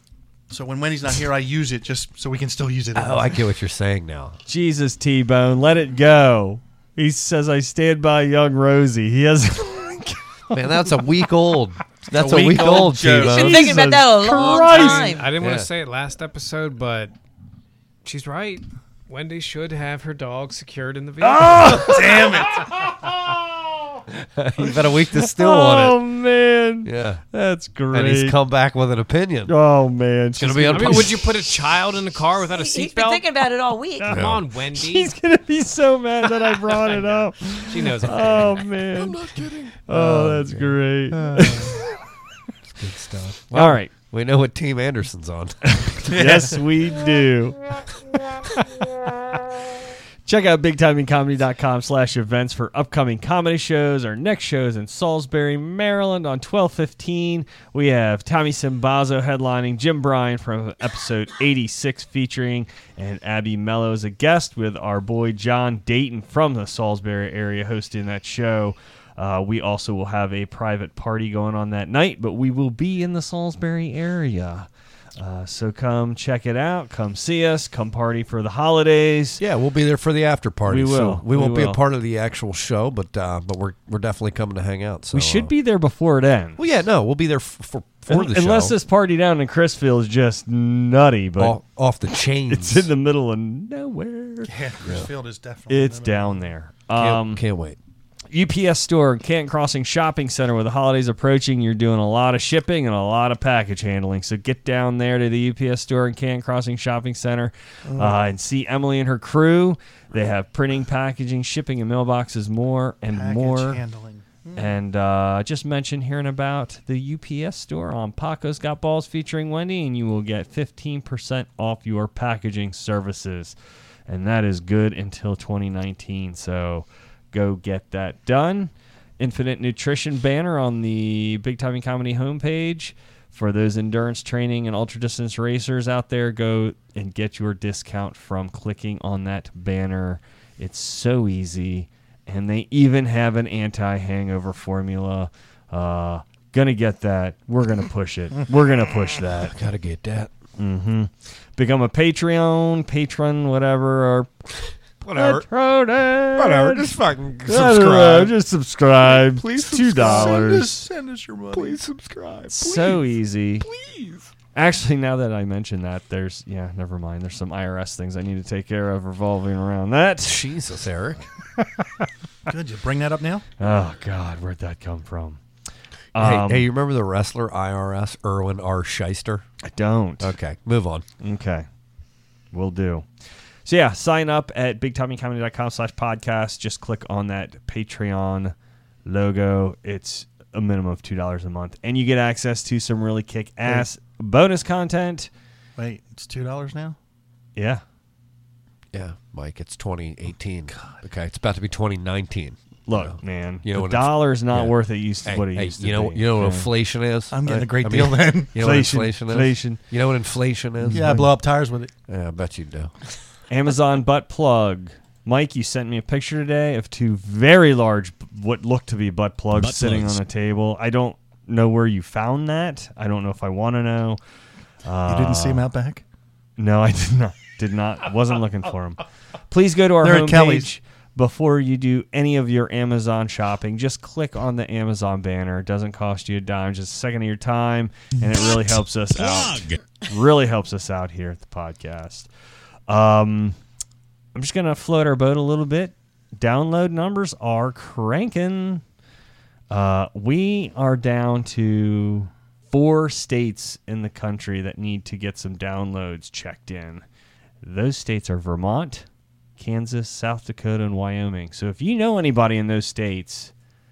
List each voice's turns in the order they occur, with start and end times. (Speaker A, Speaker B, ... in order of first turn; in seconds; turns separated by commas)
Speaker A: 0.5-3.4, Speaker B: 2.9-4.4, Speaker C: 4.5-10.6, Speaker B: 10.5-13.9, Speaker A: 12.1-13.6, Speaker D: 13.2-15.3, Speaker C: 13.5-15.2, Speaker E: 14.5-17.1, Speaker B: 15.4-15.7, Speaker E: 18.0-22.0, Speaker C: 21.2-23.3, Speaker A: 21.8-22.7, Speaker B: 24.1-26.0, Speaker C: 25.1-28.4, Speaker B: 26.8-27.2, Speaker B: 27.9-29.5, Speaker C: 29.4-31.2, Speaker B: 30.4-31.3, Speaker E: 30.4-33.3, Speaker D: 32.5-34.2, Speaker E: 34.0-35.1, Speaker B: 34.1-34.4, Speaker C: 34.7-39.2, Speaker E: 36.7-38.6, Speaker B: 38.9-41.8, Speaker C: 39.9-42.0, Speaker B: 42.7-46.5, Speaker C: 43.5-43.9, Speaker C: 46.0-47.6, Speaker A: 46.1-46.5, Speaker B: 47.9-48.8, Speaker C: 50.2-79.4, Speaker B: 79.4-85.5, Speaker C: 80.7-81.8, Speaker C: 85.1-86.6, Speaker B: 86.6-88.8, Speaker C: 88.1-91.6, Speaker B: 91.4-92.9, Speaker C: 92.5-94.5, Speaker A: 94.5-96.5, Speaker B: 94.8-95.1, Speaker C: 95.7-97.4, Speaker B: 96.9-97.8, Speaker C: 98.3-113.8, Speaker A: 107.8-108.3, Speaker A: 113.1-114.7, Speaker C: 114.5-123.5, Speaker C: 124.1-149.5, Speaker B: 149.4-150.3, Speaker C: 150.6-154.3, Speaker B: 155.0-155.5, Speaker C: 155.1-156.9, Speaker B: 156.3-158.3, Speaker C: 157.4-160.7, Speaker B: 159.0-160.9, Speaker A: 159.9-161.8, Speaker B: 161.5-164.3, Speaker C: 162.5-163.7, Speaker C: 164.5-170.4, Speaker B: 170.2-171.3, Speaker C: 171.6-172.1, Speaker A: 172.5-173.4, Speaker C: 173.6-175.4, Speaker C: 176.1-176.7, Speaker B: 176.2-179.4, Speaker C: 179.6-180.3, Speaker B: 180.2-181.1, Speaker C: 181.2-181.7, Speaker C: 182.5-183.1, Speaker C: 183.7-188.5, Speaker C: 189.1-195.3, Speaker A: 195.8-197.0, Speaker C: 197.6-197.8, Speaker B: 198.9-211.2, Speaker C: 202.9-206.7, Speaker A: 207.3-208.6, Speaker C: 208.6-209.8, Speaker C: 210.8-211.3, Speaker A: 210.9-211.9, Speaker B: 212.1-212.9, Speaker C: 213.5-224.2, Speaker C: 224.8-225.7, Speaker A: 225.1-226.0, Speaker C: 226.6-242.3, Speaker A: 230.0-230.7, Speaker C: 242.9-243.6, Speaker C: 244.3-248.8, Speaker C: 249.7-257.0, Speaker C: 257.6-259.1, Speaker C: 259.6-263.5